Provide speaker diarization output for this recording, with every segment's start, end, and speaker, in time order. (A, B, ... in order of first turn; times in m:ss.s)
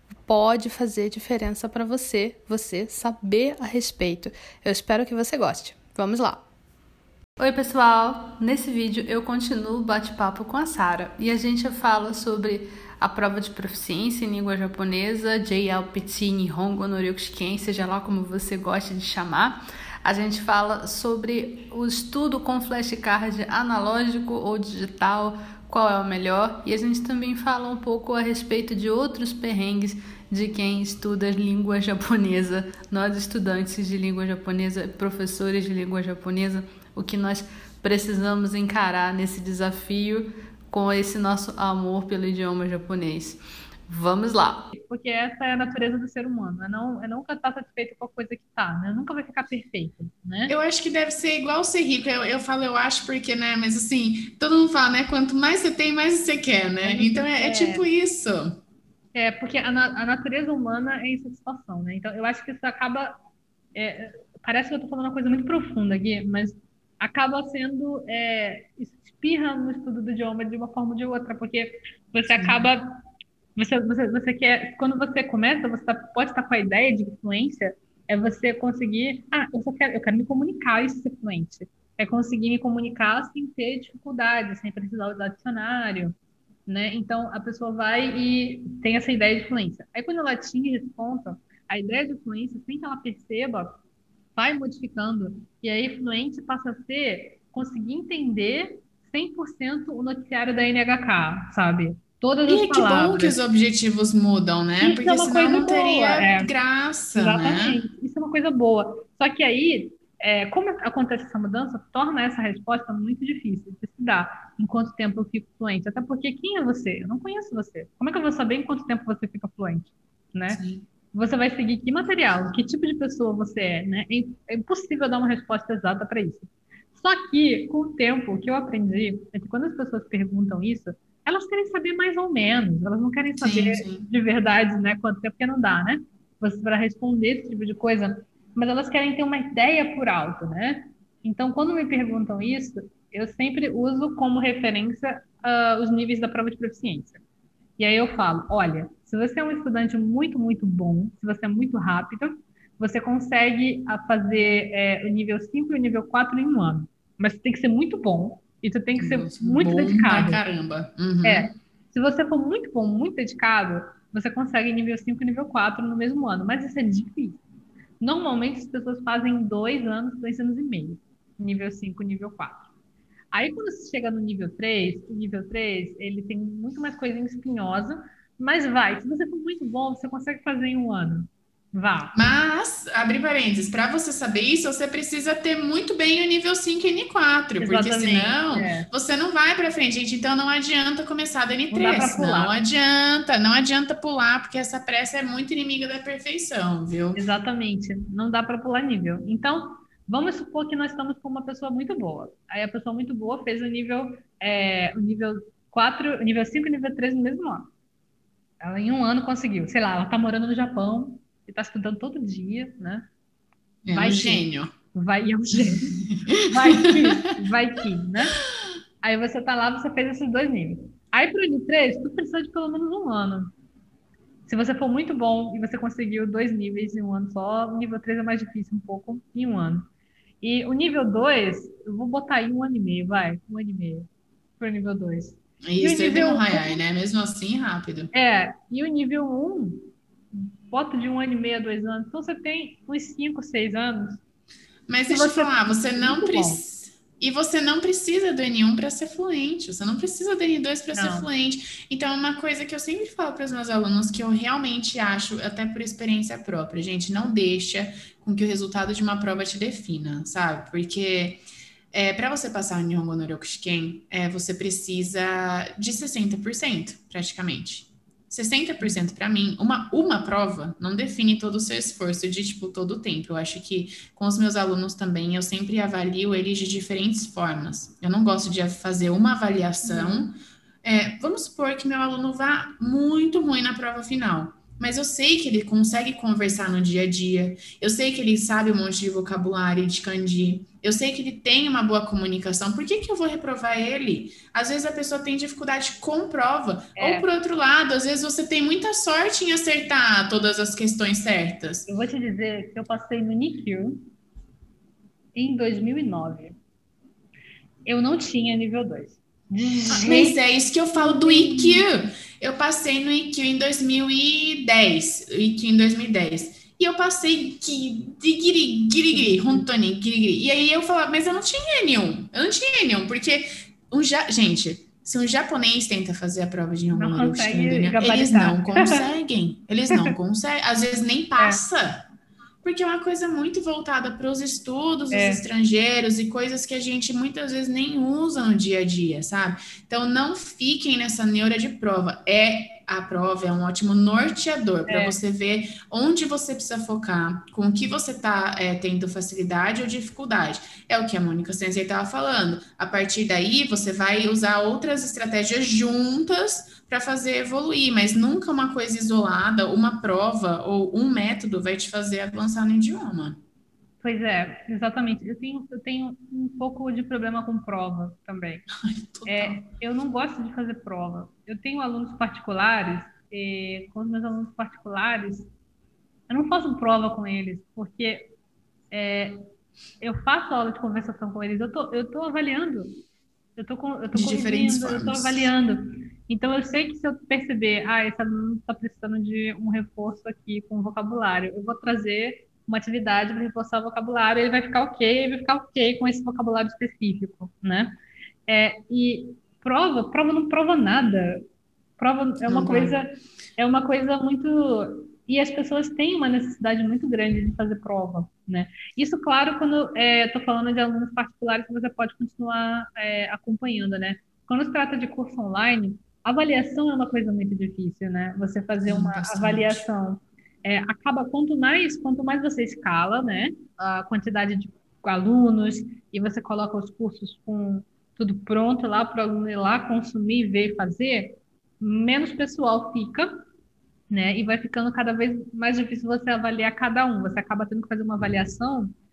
0:00.3-0:06.4 A
0:07.4-0:44.7 A
0:44.7-0:50.5 B
0:50.5-0:58.6 C
0:56.8-0:57.9 B
0:59.2-1:03.2 B
1:03.8-1:13.0 B
1:12.3-1:12.7 C
1:13.6-1:26.2 B
1:26.7-1:33.8 B
1:34.4-1:43.4 B
1:42.5-1:47.8 C
1:44.8-1:46.5 B
1:47.1-2:00.6 B
2:00.5-2:00.8 C
2:01.1-2:27.2 B
2:13.4-2:14.1 C
2:27.8-2:40.4 B
2:39.0-2:41.5 C
2:41.2-2:47.4 B
2:48.0-2:52.7 B
2:53.3-3:02.2 B
3:02.2-3:17.2 C
3:07.6-3:08.9 B
3:11.7-3:12.5 B
3:17.2-3:27.7 B
3:28.6-3:33.1 B
3:33.8-3:34.7 C
3:33.9-3:38.4 B
3:35.6-3:37.2 C
3:39.0-3:43.5 B
3:44.5-3:49.9 B
3:50.4-3:54.1 B
3:54.6-3:56.8 B
3:55.6-3:58.1 C
3:58.1-4:04.2 B
4:04.9-4:21.4 C
4:05.1-4:06.6 B
4:10.9-4:11.3 B
4:21.9-5:01.9 C
4:39.8-4:40.3 B
4:57.0-4:57.3 B
5:01.9-5:04.1 B
5:05.4-5:06.6 B
5:07.9-5:10.4 B
5:10.0-5:32.0 C
5:11.0-5:11.9 B
5:19.1-5:19.6 B
5:26.9-5:29.0 B
5:29.9-5:30.2 B
5:32.6-6:03.4 C
5:35.1-5:35.4 B
5:44.9-5:45.2 B
6:04.0-6:08.7 B
6:08.8-6:09.6 C
6:09.3-6:15.5 B
6:16.3-6:18.3 B
6:18.9-6:19.5 B
6:20.0-6:23.0 B
6:23.6-6:38.0 B
6:24.1-6:25.5 C
6:38.5-6:41.4 B
6:42.0-7:13.3 B
6:42.5-6:43.0 C
6:58.8-6:59.8 C
7:14.1-7:18.9 B